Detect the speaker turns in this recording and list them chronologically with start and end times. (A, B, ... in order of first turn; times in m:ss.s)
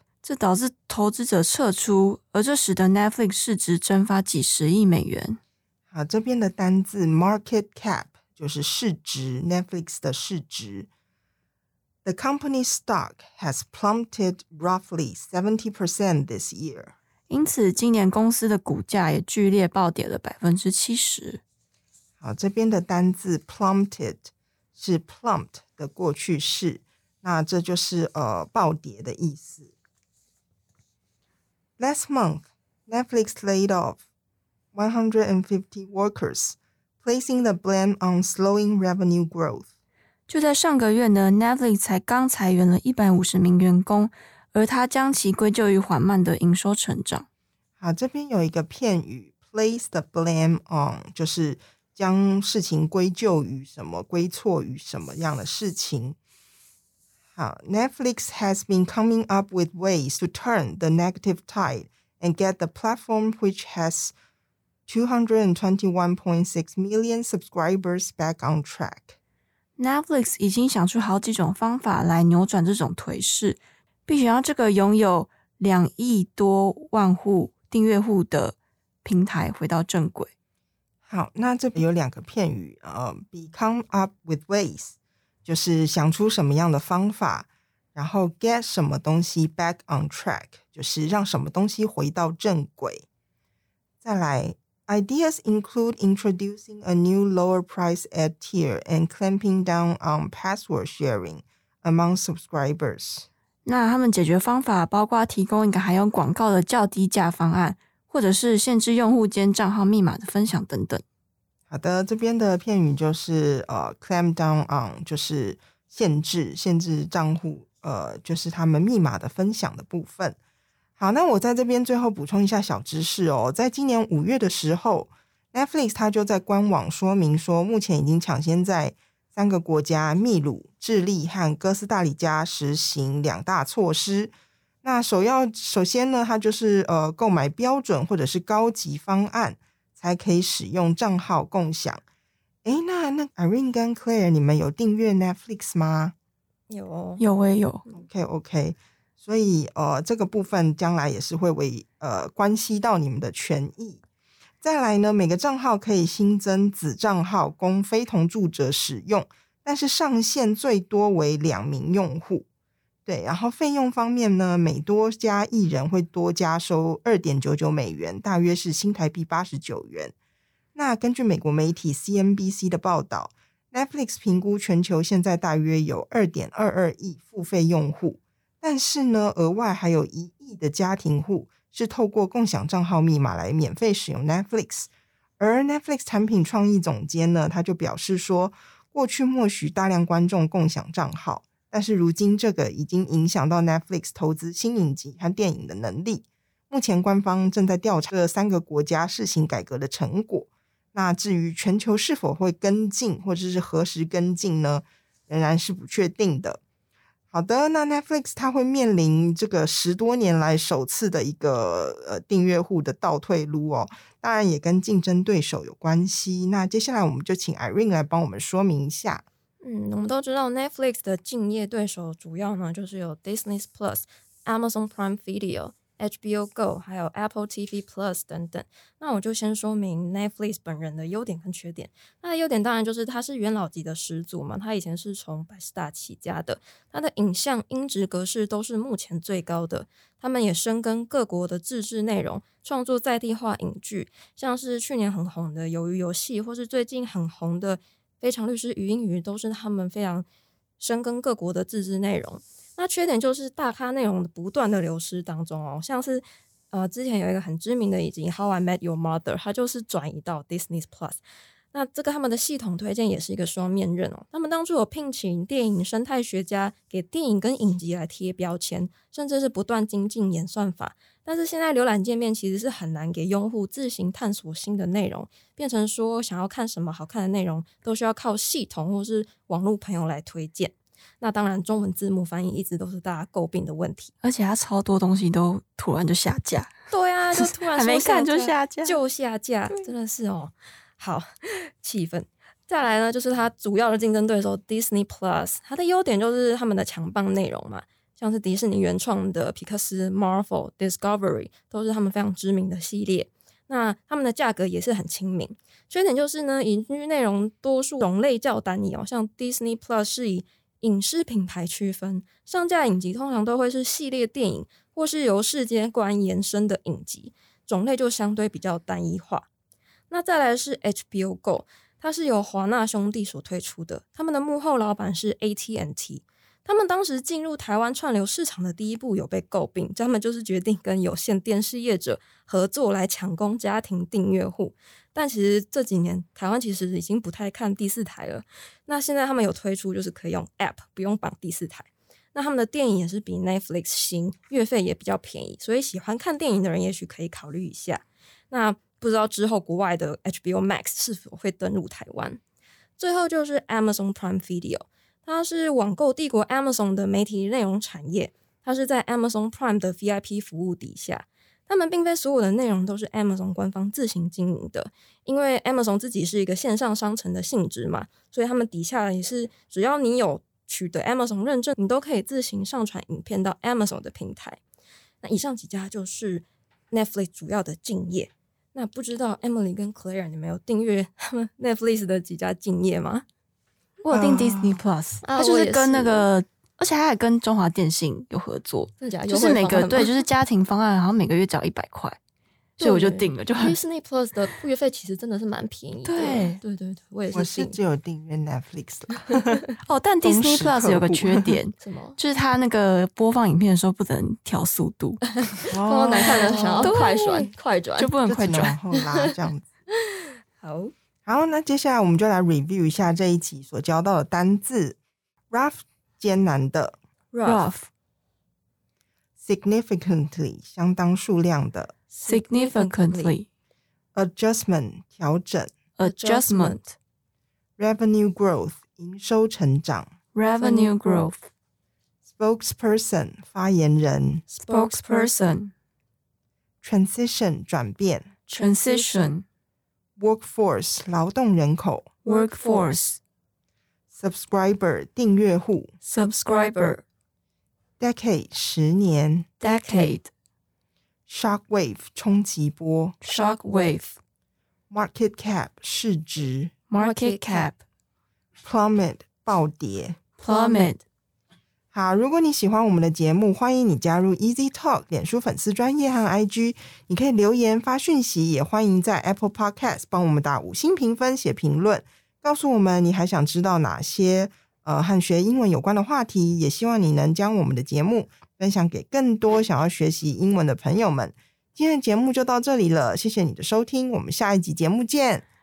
0:00.2-0:05.4 A
0:05.9-0:10.9 B
0:12.0-0:16.9 B
0:17.3-0:21.4 A
0:22.2-0:29.7 B
0:31.8-0:34.0 B
0:34.7-0:39.7 B
0:40.3-0:47.2 A
0:47.8-0:56.2 B
0:57.3-1:04.1 B
1:04.9-1:09.2 B
1:09.8-1:20.3 A
1:21.0-1:33.0 B
1:34.0-1:43.2 B
1:43.6-1:51.0 A
1:51.7-2:00.4 B
2:01.0-2:14.3 B
2:14.8-2:22.0 B
2:22.6-2:26.1 B
2:26.7-2:27.2 C
2:27.2-2:27.8 A
2:27.9-2:34.0 B
2:34.6-2:42.4 B
2:43.0-2:50.1 B
2:50.7-3:04.9 B
3:05.4-3:26.6 B
3:27.3-3:39.2 B
3:39.6-4:10.2 C
4:10.8-4:21.2 C
4:21.7-4:44.1 C
4:44.2-4:46.7 A
4:46.9-5:19.5 C
4:47.3-4:49.0 A
5:20.1-5:52.4 C
5:53.0-6:14.6 C
6:15.2-6:23.2 C
6:24.0-6:32.2 A
6:24.1-6:24.8 B
6:25.2-6:26.3 C
6:29.0-6:30.1 C
6:32.8-6:37.8 C
6:32.8-6:33.8 A
6:36.0-6:36.6 A
6:37.3-6:39.6 B
6:39.8-6:45.2 A
6:40.2-6:41.6 B
6:41.8-6:42.2 C
6:45.6-6:48.1 C
6:45.7-6:46.9 B
6:46.2-6:48.7 A
6:48.2-6:49.6 B
6:49.9-6:50.9 C
6:51.2-6:55.0 B
6:55.5-6:57.0 B
6:57.3-6:57.7 C
6:57.4-6:57.9 A
6:59.4-7:01.9 B
7:02.1-7:03.4 C
7:02.2-7:03.5 A
7:04.1-7:05.7 B
7:06.0-7:06.9 A
7:06.0-7:06.8 C
7:07.8-7:10.1 B
7:10.3-7:11.4 A
7:10.6-7:11.3 C
7:12.2-7:14.4 B
7:14.5-7:15.4 C
7:14.7-7:15.7 A
7:16.8-7:18.4 B
7:18.5-7:19.3 C
7:18.5-7:19.4 A
7:20.2-7:22.1 B
7:22.2-7:23.2 A
7:22.4-7:22.8 C
7:24.1-7:25.9 B
7:26.0-7:27.0 A
7:28.0-7:29.5 B
7:29.6-7:30.3 A
7:29.7-7:30.2 C
7:31.3-7:33.1 B
7:33.2-7:34.1 A
7:34.9-7:36.7 B
7:36.9-7:37.8 A
7:36.9-7:37.7 C
7:38.6-7:40.2 B
7:40.4-7:41.0 A
7:41.9-8:05.4 B